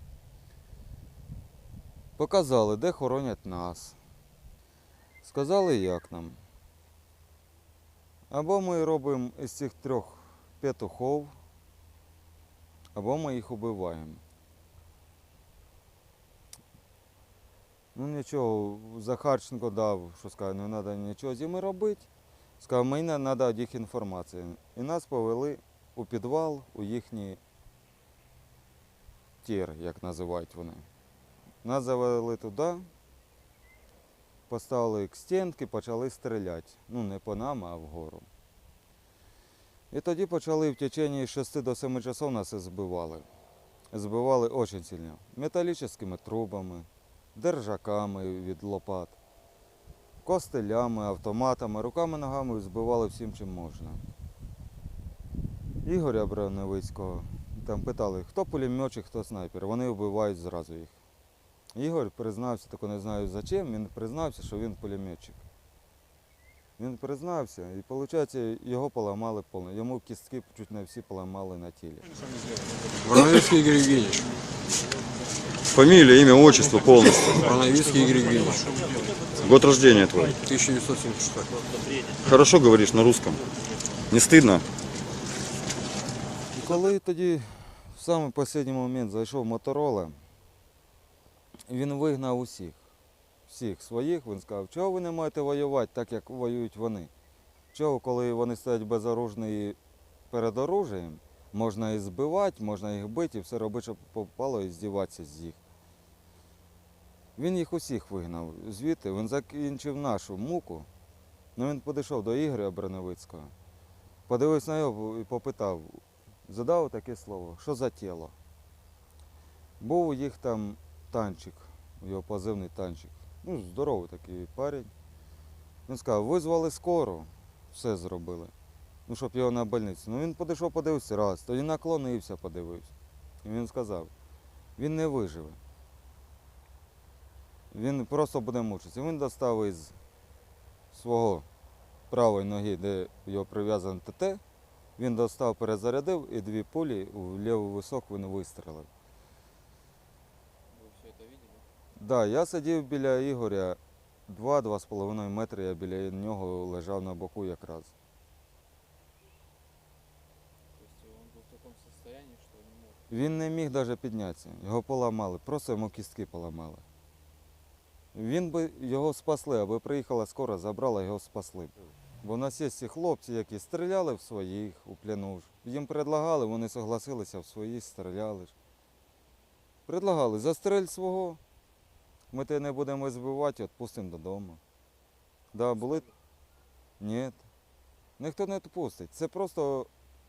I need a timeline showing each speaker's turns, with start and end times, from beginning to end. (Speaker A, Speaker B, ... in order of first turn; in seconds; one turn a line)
Speaker A: 2.2-4.0
Speaker A: 5.2-6.4
Speaker A: 8.3-11.3
Speaker A: 12.9-14.2
Speaker A: 17.9-22.1
Speaker A: 22.6-27.4
Speaker A: 29.4-30.9
Speaker A: 31.6-32.9
Speaker A: 34.5-38.3
Speaker A: 39.9-43.3
Speaker A: 43.9-49.2
Speaker A: 50.2-54.0
Speaker A: 55.8-61.0
Speaker A: 61.8-65.4
Speaker A: 66.8-72.1
Speaker B: 73.1-74.2
Speaker C: 73.4-73.8
Speaker D: 75.7-77.5
Speaker C: 77.5-78.7
Speaker B: 77.6-78.7
Speaker D: 79.4-80.4
Speaker C: 80.4-80.7
Speaker B: 80.6-81.5
Speaker D: 82.2-83.4
Speaker D: 84.1-84.6
Speaker A: 84.2-84.6
Speaker A: 86.5-90.2
Speaker A: 91.7-92.8
Speaker A: 93.5-97.1
Speaker A: 97.7-99.8
Speaker A: 100.3-105.6
Speaker A: 107.4-110.9
Speaker A: 111.6-113.5
Speaker A: 114.3-118.3
Speaker A: 119.8-124.9
Speaker A: 125.9-128.5
Speaker A: 129.1-132.9
Speaker A: 133.4-134.1
Speaker A: 134.8-135.6
Speaker A: 137.7-140.0
Speaker A: 140.9-141.5
Speaker A: 142.1-144.4
Speaker A: 145.0-148.9
Speaker C: 150.7-151.7
Speaker A: 152.0-157.9
Speaker C: 160.8-163.0
Speaker A: 163.1-166.8
Speaker A: 168.1-178.5
Speaker A: 179.9-181.4
Speaker A: 182.3-184.6
Speaker A: 185.5-186.1
Speaker A: 187.0-187.4
Speaker A: 188.2-189.9